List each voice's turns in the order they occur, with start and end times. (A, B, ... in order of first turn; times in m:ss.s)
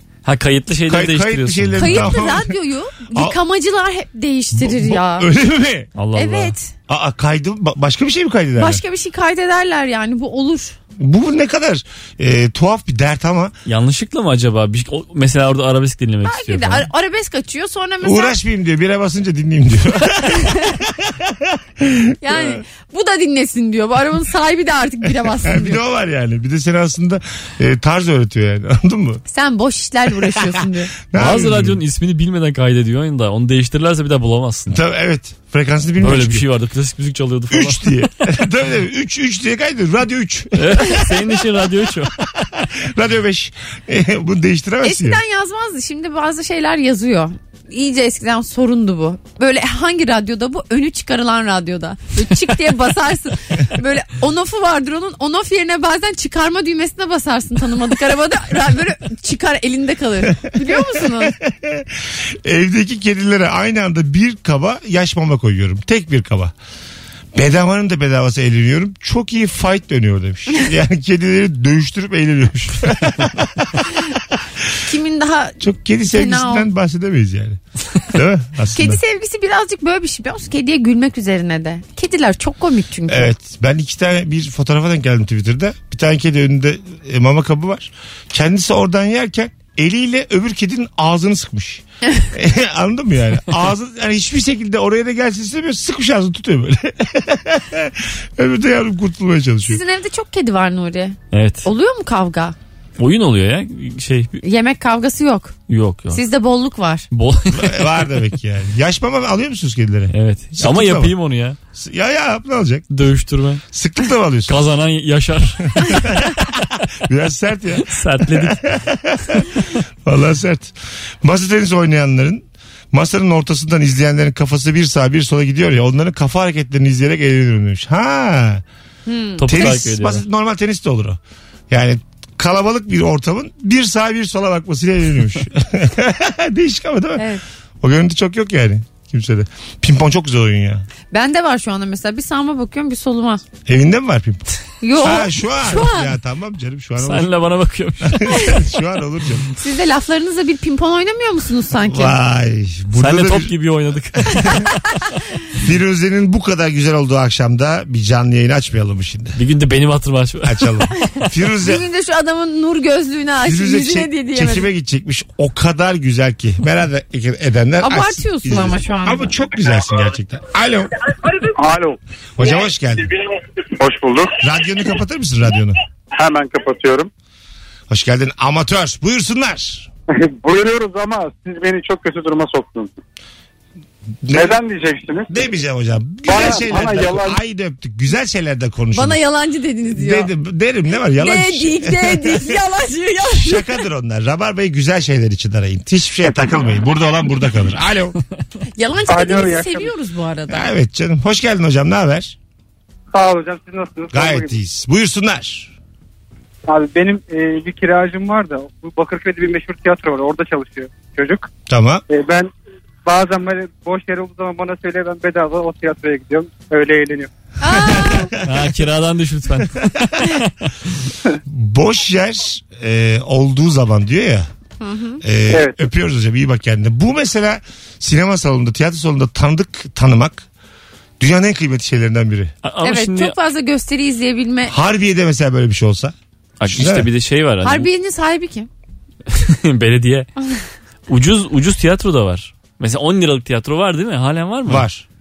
0:00.2-0:02.2 A
0:00.9-0:02.5 B
0:01.8-0:05.3 C
0:04.6-0:05.9 B
0:06.0-0:06.5 A
0:06.2-0:06.7 C
0:06.9-0:08.8 B
0:08.6-0:10.8 C
0:11.0-0:13.5 B
0:13.7-0:16.9 A
0:16.2-0:18.4 C
0:18.0-0:22.6 B
0:20.3-0:20.6 C
0:22.2-0:25.8 C
0:25.3-0:29.2 B
0:29.3-0:30.9 C
0:30.4-0:31.8 B
0:31.2-0:34.8 A
0:34.7-0:36.4 B
0:36.0-0:38.0 A
0:37.5-0:41.4 B
0:40.6-0:42.2 A
0:42.2-0:45.2 B
0:44.8-1:01.4 C
1:00.4-1:06.5 B
1:07.3-1:14.0 B
1:14.8-1:16.7 C
1:15.6-1:19.0 B
1:18.7-1:23.3 C
1:23.1-1:39.8 B
1:32.0-1:32.3 C
1:39.6-1:42.6 C
1:41.3-1:41.7 A
1:43.0-1:44.4 A
1:44.4-1:45.6 C
1:45.7-1:46.2 A
1:46.1-1:47.1 C
1:47.1-1:48.1 A
1:47.5-1:51.1 B
1:50.1-1:51.6 A
1:51.8-1:52.9 B
1:52.9-1:53.6 A
1:53.7-1:54.6 B
1:54.5-1:56.2 A
1:55.8-2:08.6 B
1:57.9-1:58.8 A
2:09.1-2:09.8 C
2:09.4-2:10.2 A
2:09.5-2:11.2 B
2:11.7-2:17.3 B
2:17.2-2:17.4 C
2:17.8-2:20.9 B
2:21.1-2:23.4 C
2:23.7-2:27.3 B
2:24.8-2:26.1 C
2:27.0-2:28.5 A
2:28.0-2:29.5 B
2:29.6-2:32.2 C
2:31.8-2:33.5 B
2:33.0-2:34.7 A
2:34.3-2:34.7 B
2:35.6-2:39.4 B
2:39.4-2:41.1 A
2:40.4-2:41.8 B
2:41.6-2:44.7 C
2:43.4-2:51.1 B
2:47.8-2:49.4 C
2:51.5-2:52.0 D
2:52.4-2:53.1 B
2:53.8-2:54.3 D
2:54.4-2:55.8 B
2:56.1-2:57.1 D
2:57.9-2:59.9 B
3:00.3-3:02.9 D
3:04.2-3:04.6 B
3:04.3-3:05.3 D
3:05.3-3:09.2 B
3:06.2-3:07.4 D
3:08.9-3:10.3 C
3:09.9-3:12.6 B
3:11.2-3:13.8 C
3:13.3-3:18.2 B
3:18.8-3:20.7 C
3:19.1-3:19.9 E
3:20.5-3:22.4 B
3:23.1-3:24.6 E
3:24.1-3:25.7 B
3:26.7-3:31.5 E
3:31.7-3:32.0 B
3:32.1-3:32.5 E
3:33.0-3:37.3 E
3:37.6-3:38.3 C
3:37.7-3:38.7 B
3:38.4-3:40.8 A
3:41.5-3:44.5 B
3:44.8-3:45.2 C
3:45.2-3:50.4 B
3:45.5-3:45.8 E
3:51.2-3:52.5 B
3:52.6-3:53.4 A
3:52.8-3:54.7 C
3:54.7-3:56.2 B
3:56.6-3:57.9 A
3:56.7-3:57.1 B
3:57.6-3:58.7 C
3:59.3-4:00.3 A
4:01.1-4:04.9 A
4:04.7-4:05.0 B